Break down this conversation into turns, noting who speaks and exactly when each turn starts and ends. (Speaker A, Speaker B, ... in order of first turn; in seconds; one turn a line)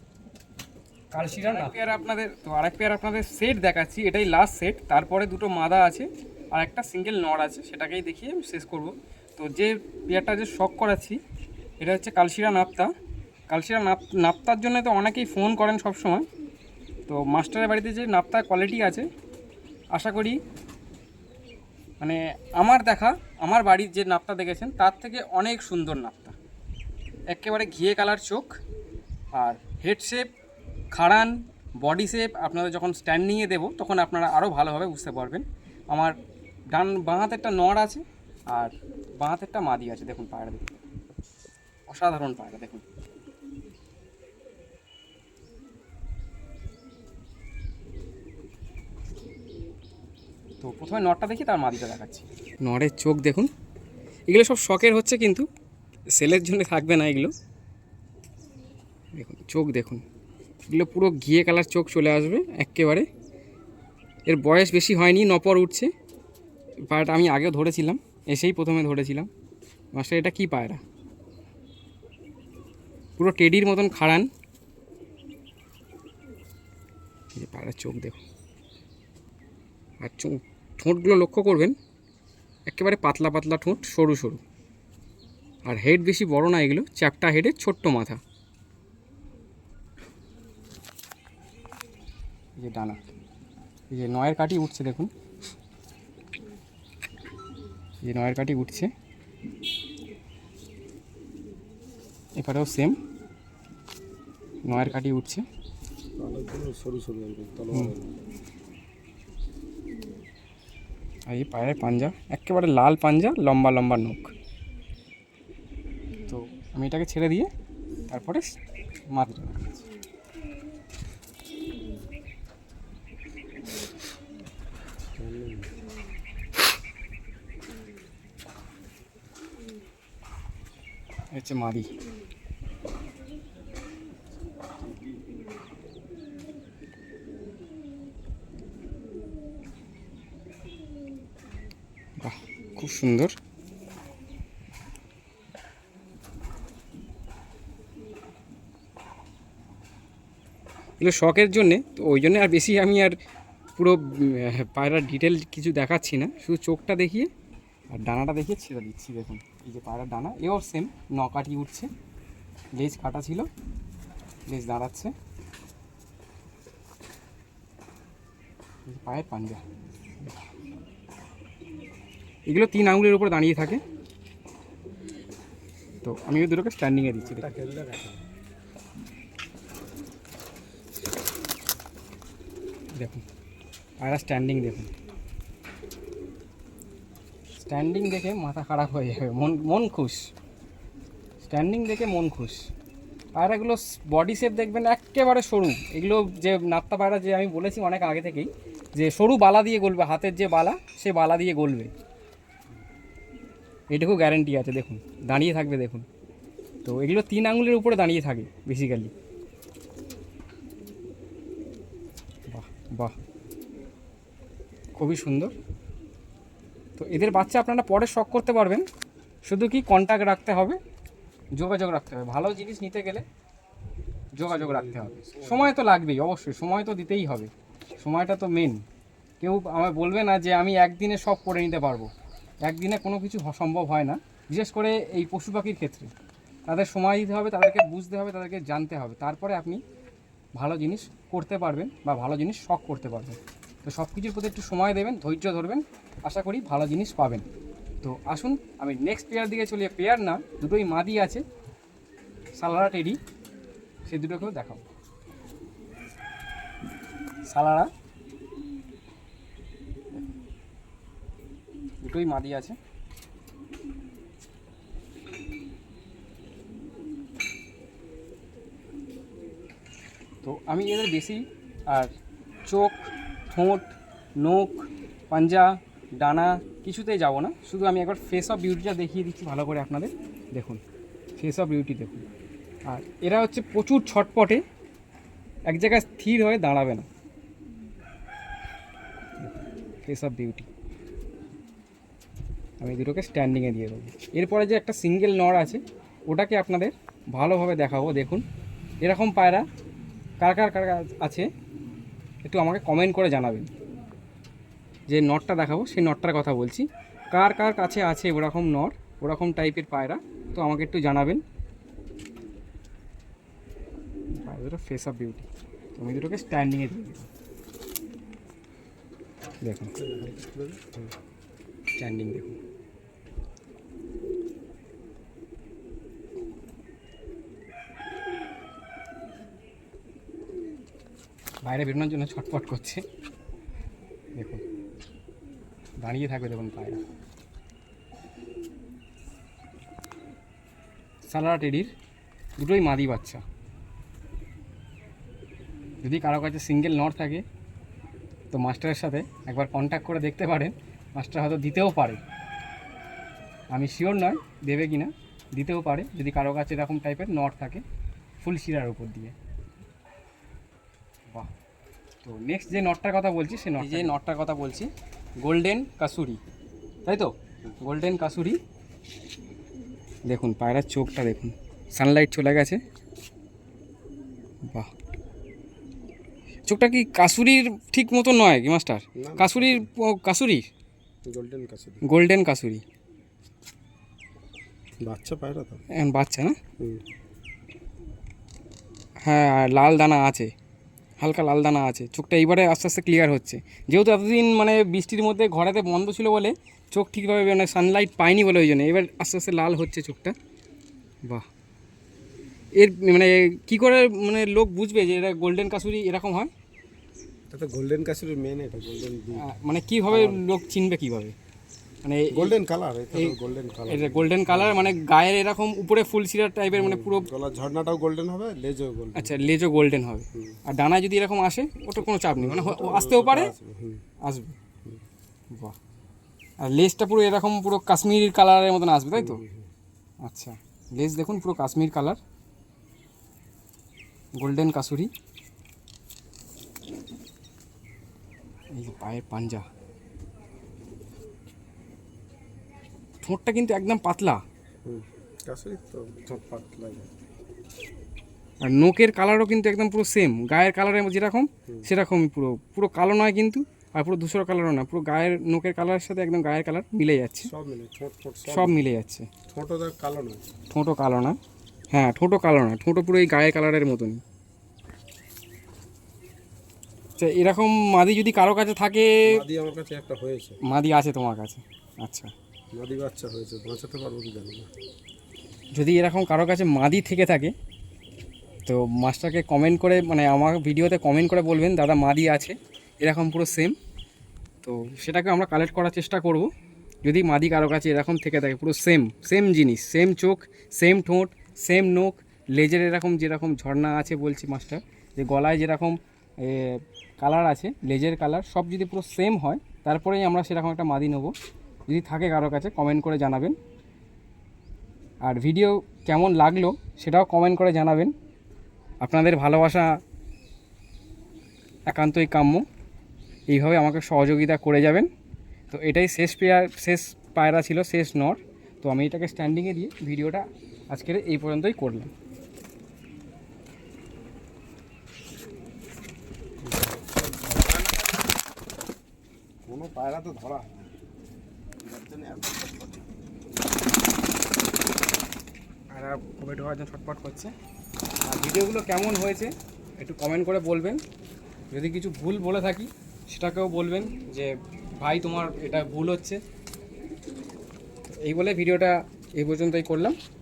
Speaker A: 1.1-11.2
Speaker B: 1.3-1.6
Speaker A: 11.8-12.9
Speaker A: 13.5-16.2
Speaker A: 17.1-19.1
Speaker A: 19.9-20.4
Speaker A: 22.0-26.4
Speaker A: 27.3-28.6
Speaker A: 29.3-30.2
Speaker A: 30.9-36.1
Speaker A: 36.7-40.8
Speaker A: 41.9-42.8
Speaker A: 50.6-53.5
Speaker A: 54.3-55.5
Speaker A: 56.1-57.3
Speaker A: 59.1-60.0
Speaker A: 60.7-63.0
Speaker A: 64.3-65.9
Speaker A: 66.9-69.3
Speaker A: 69.9-70.8
Speaker A: 73.2-74.3
Speaker A: 77.3-78.2
Speaker A: 80.0-81.8
Speaker A: 82.7-84.4
Speaker A: 85.6-88.2
Speaker A: 92.6-93.1
Speaker A: 93.9-95.1
Speaker A: 98.0-98.9
Speaker A: 102.4-103.0
Speaker A: 104.6-105.4
Speaker B: 106.2-108.2
Speaker A: 111.3-114.3
Speaker A: 116.3-117.5
Speaker A: 118.1-118.5
Speaker A: 119.1-119.8
Speaker B: 125.1-125.7
Speaker A: 131.3-131.9
Speaker A: 142.2-143.3
Speaker A: 151.0-153.1
Speaker A: 153.8-157.3
Speaker A: 157.9-161.9
Speaker A: 162.8-163.5
Speaker A: 164.5-165.1
Speaker A: 168.8-169.6
Speaker A: 172.4-173.8
Speaker A: 176.0-177.5
Speaker B: 177.2-178.2
Speaker A: 183.0-183.2
Speaker A: 184.0-184.9
Speaker A: 187.6-190.3
Speaker A: 191.4-192.7
Speaker A: 193.3-201.9
Speaker A: 203.9-206.1
Speaker A: 206.8-209.1
Speaker A: 212.5-213.1
Speaker A: 214.9-215.5
Speaker A: 217.0-218.8
Speaker A: 219.4-220.8
Speaker A: 221.6-223.2
Speaker A: 224.3-228.8
Speaker B: 224.4-225.7
Speaker A: 229.4-232.1
Speaker A: 232.6-236.1
Speaker A: 236.7-239.8
Speaker A: 240.6-247.4
Speaker A: 248.0-251.4
Speaker A: 252.6-253.2
Speaker A: 254.1-254.8
Speaker A: 257.5-257.9
Speaker A: 262.0-262.8
Speaker A: 270.4-272.1
Speaker A: 272.6-280.8
Speaker A: 281.4-282.2
Speaker A: 282.9-284.6
Speaker A: 285.7-287.1
Speaker A: 290.0-290.7
Speaker A: 292.8-298.4
Speaker A: 299.0-299.6
Speaker A: 300.4-301.5
Speaker A: 302.4-303.7
Speaker A: 305.1-311.4
Speaker A: 314.4-317.3
Speaker A: 319.6-319.9
Speaker B: 319.9-321.1
Speaker A: 322.0-322.6
Speaker A: 331.6-333.0
Speaker A: 334.4-334.6
Speaker A: 336.0-337.0
Speaker A: 341.3-341.9
Speaker A: 342.6-343.4
Speaker A: 346.0-347.4
Speaker A: 348.5-352.2
Speaker A: 353.7-357.8
Speaker A: 358.4-359.3
Speaker A: 362.2-364.9
Speaker A: 365.4-366.4
Speaker A: 367.1-368.6
Speaker A: 370.3-372.8
Speaker A: 376.6-380.6
Speaker B: 379.1-379.9
Speaker B: 381.2-382.0
Speaker A: 382.0-382.8
Speaker B: 385.0-385.8
Speaker A: 385.9-386.6
Speaker B: 386.8-387.0
Speaker A: 389.2-390.5
Speaker A: 391.2-400.3
Speaker A: 402.7-406.5
Speaker B: 407.5-409.5
Speaker A: 409.3-411.3
Speaker B: 410.1-410.4
Speaker A: 412.0-412.6
Speaker B: 412.3-415.0
Speaker A: 413.9-417.3
Speaker B: 416.7-419.5
Speaker A: 419.1-423.5
Speaker B: 420.3-420.6
Speaker B: 422.3-424.0
Speaker A: 424.2-424.6
Speaker A: 426.6-429.4
Speaker B: 429.1-429.7
Speaker A: 430.2-432.2
Speaker A: 434.4-435.1
Speaker A: 438.7-439.6
Speaker A: 443.2-444.4
Speaker B: 444.8-447.1
Speaker A: 448.6-457.5
Speaker B: 457.4-458.9
Speaker A: 458.4-459.3
Speaker B: 459.5-460.5
Speaker A: 460.7-461.4
Speaker A: 461.9-464.2
Speaker A: 467.2-469.4
Speaker B: 469.3-470.6
Speaker A: 470.6-472.3
Speaker B: 472.7-474.7
Speaker A: 475.7-477.5
Speaker A: 478.6-483.8
Speaker A: 484.6-486.5
Speaker A: 487.0-501.3
Speaker A: 501.9-503.6
Speaker A: 505.2-508.1
Speaker A: 509.0-510.0
Speaker A: 511.9-512.6
Speaker A: 513.5-515.1
Speaker A: 515.7-522.1
Speaker B: 526.6-528.0
Speaker B: 529.7-530.9
Speaker B: 531.8-533.1
Speaker A: 535.9-537.5
Speaker A: 538.2-541.0
Speaker A: 541.7-546.4
Speaker A: 548.1-550.1